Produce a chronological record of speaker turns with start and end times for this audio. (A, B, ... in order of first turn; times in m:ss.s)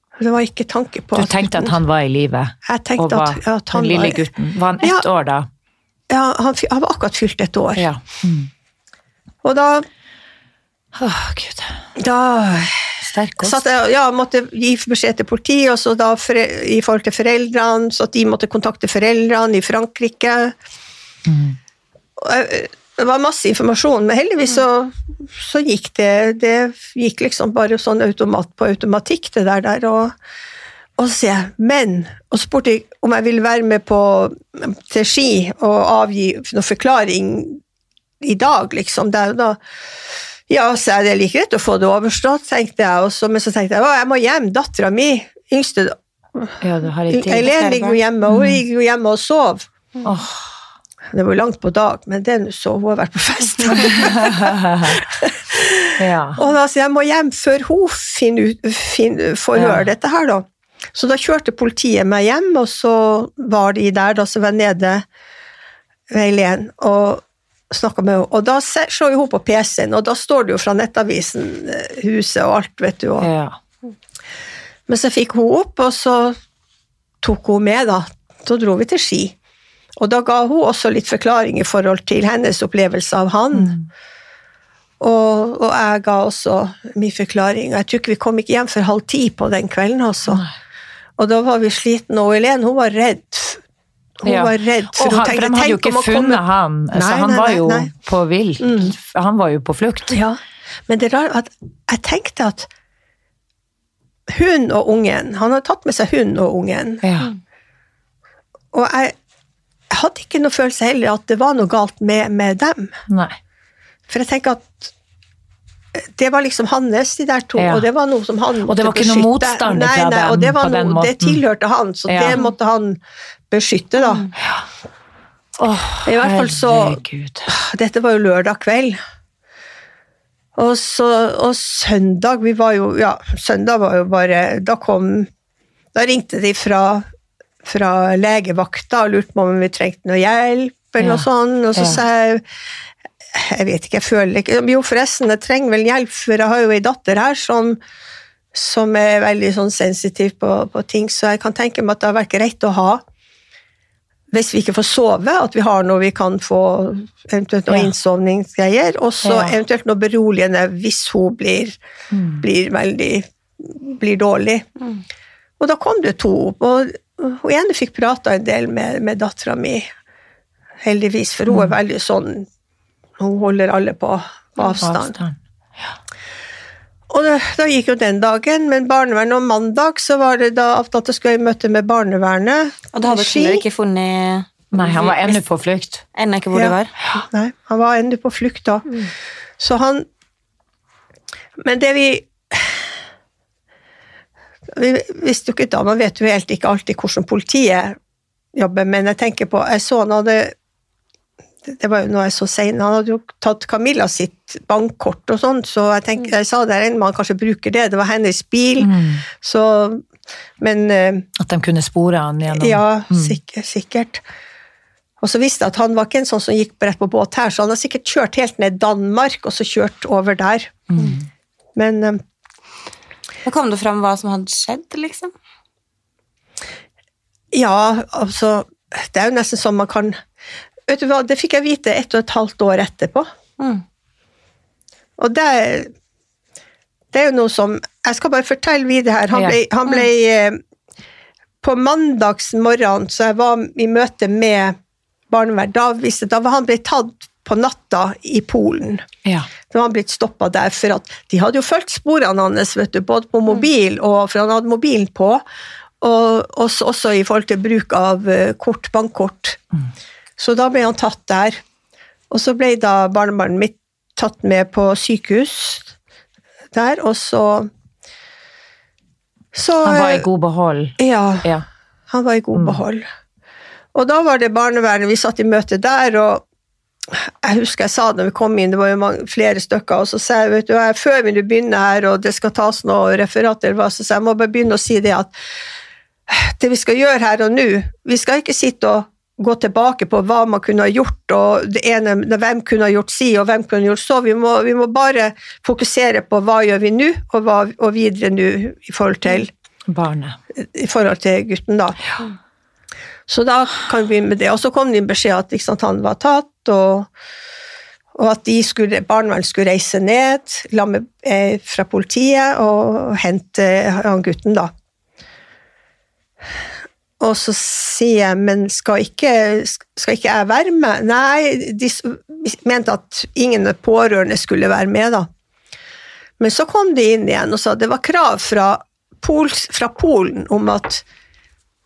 0:00.2-0:01.8 A
0:01.2-0:05.5 B
0:02.6-0:04.3 A
0:04.8-0:05.1 A
0:06.1-0:07.9 A
0:07.8-0:08.5 B
0:09.4-0:09.9 A
0:10.9-0:11.8 B
0:12.0-0:20.6 A
0:13.0-0:13.7 B
0:21.2-0:21.6 B
0:22.2-0:30.1 A
0:31.0-0:37.6 A
0:38.2-0:39.6 A
0:40.5-0:49.7 A
0:46.6-0:48.6 B
0:50.0-0:50.5 B
0:51.1-1:05.0 A
0:53.7-0:55.0 B
0:56.0-0:56.4 B
0:59.6-0:59.8 B
1:06.1-1:13.3 A
1:13.2-1:13.6 B
1:14.9-1:16.4 A
1:17.2-1:19.4 A
1:20.0-1:23.8 A
1:23.5-1:23.8 B
1:25.0-1:30.4 A
1:31.2-1:33.6 A
1:34.2-1:36.4 A
1:34.2-1:40.2 B
1:36.9-1:37.9 A
1:38.6-1:38.9 A
1:40.1-1:42.7 A
1:44.3-1:47.0 A
1:47.0-1:47.3 B
1:48.7-1:49.1 A
1:49.9-1:53.0 A
1:53.1-1:53.4 B
1:54.1-1:54.9 A
1:55.9-2:03.0 A
1:57.6-1:57.9 B
1:58.6-2:01.4 B
2:02.1-2:02.4 B
2:03.5-2:04.3 A
2:05.6-2:07.5 B
2:06.0-2:09.0 A
2:10.6-2:15.3 A
2:15.9-2:17.1 A
2:17.6-2:22.4 A
2:21.0-2:22.0 B
2:23.3-2:27.8 A
2:28.5-2:33.0 A
2:34.3-2:41.8 A
2:39.2-2:39.6 B
2:42.1-2:42.4 B
2:42.4-2:44.7 A
2:45.6-2:49.9 A
2:50.8-2:52.5 A
2:53.2-2:55.1 A
2:54.8-2:55.4 B
2:57.1-3:03.6 A
3:02.9-3:05.4 C
3:04.7-3:06.0 B
3:06.1-3:06.9 C
3:06.5-3:08.9 A
3:09.6-3:10.1 A
3:11.6-3:12.9 A
3:14.7-3:18.0 A
3:18.6-3:20.5 A
3:21.6-3:30.0 A
3:28.8-3:29.2 B
3:30.6-3:31.3 A
3:31.4-3:33.4 B
3:32.5-3:34.2 A
3:35.2-3:40.8 A
3:40.9-3:41.2 B
3:41.8-3:42.2 A
3:43.4-3:45.3 C
3:47.5-3:50.2 A
3:50.9-3:53.3 A
3:55.2-3:55.9 A
3:57.1-4:00.6 A
3:59.3-3:59.6 B
4:01.6-4:04.8 A
4:05.3-4:09.1 A
4:09.2-4:09.5 B
4:09.7-4:15.4 A
4:16.0-4:19.6 A
4:20.4-4:21.6 A
4:22.3-4:25.9 A
4:26.7-4:27.7 A
4:29.5-4:30.2 A
4:29.8-4:31.6 B
4:31.0-4:31.5 A
4:32.1-4:33.1 A
4:32.5-4:32.8 B
4:33.9-4:36.4 A
4:37.1-4:45.3 A
4:46.3-4:59.5 A
4:59.9-5:00.4 B
5:00.6-5:02.0 A
5:03.3-5:07.1 A
5:08.2-5:14.7 A
5:17.2-5:25.3 A
5:26.4-5:31.0 A